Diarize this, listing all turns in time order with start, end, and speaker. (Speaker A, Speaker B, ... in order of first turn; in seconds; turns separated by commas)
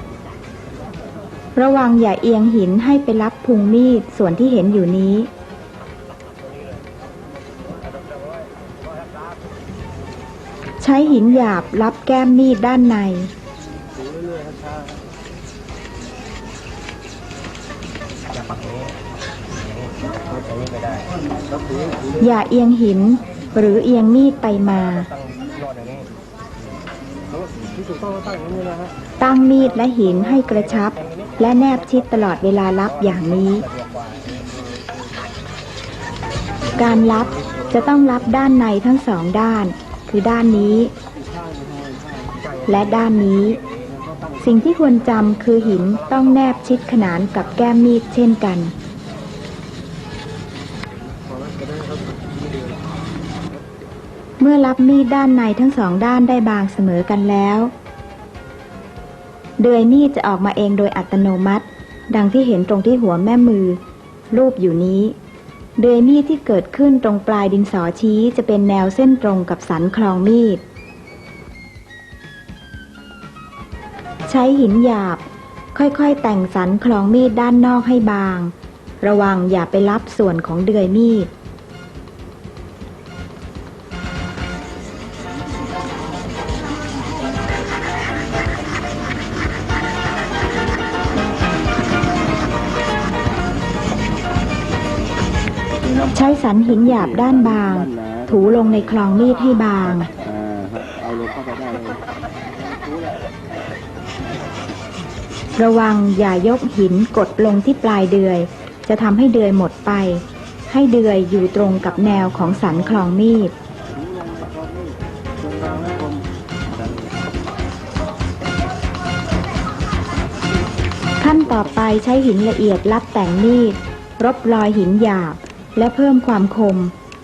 Speaker A: 1.6-5.3, Speaker A: 10.8-13.3, Speaker A: 22.2-25.1, Speaker B: 27.9-28.9, Speaker A: 29.2-33.7, Speaker A: 36.8-40.9, Speaker B: 41.3-42.6, Speaker A: 42.7-43.6, Speaker A: 44.4-48.7, Speaker B: 51.6-52.0, Speaker A: 54.4-57.7, Speaker A: 59.6-63.8, Speaker A: 64.3-65.1, Speaker A: 65.8-70.6, Speaker A: 74.3-81.3, Speaker A: 96.0-100.1, Speaker B: 100.2-102.0, Speaker A: 105.6-113.5, Speaker B: 114.1-116.3, Speaker A: 121.2-126.9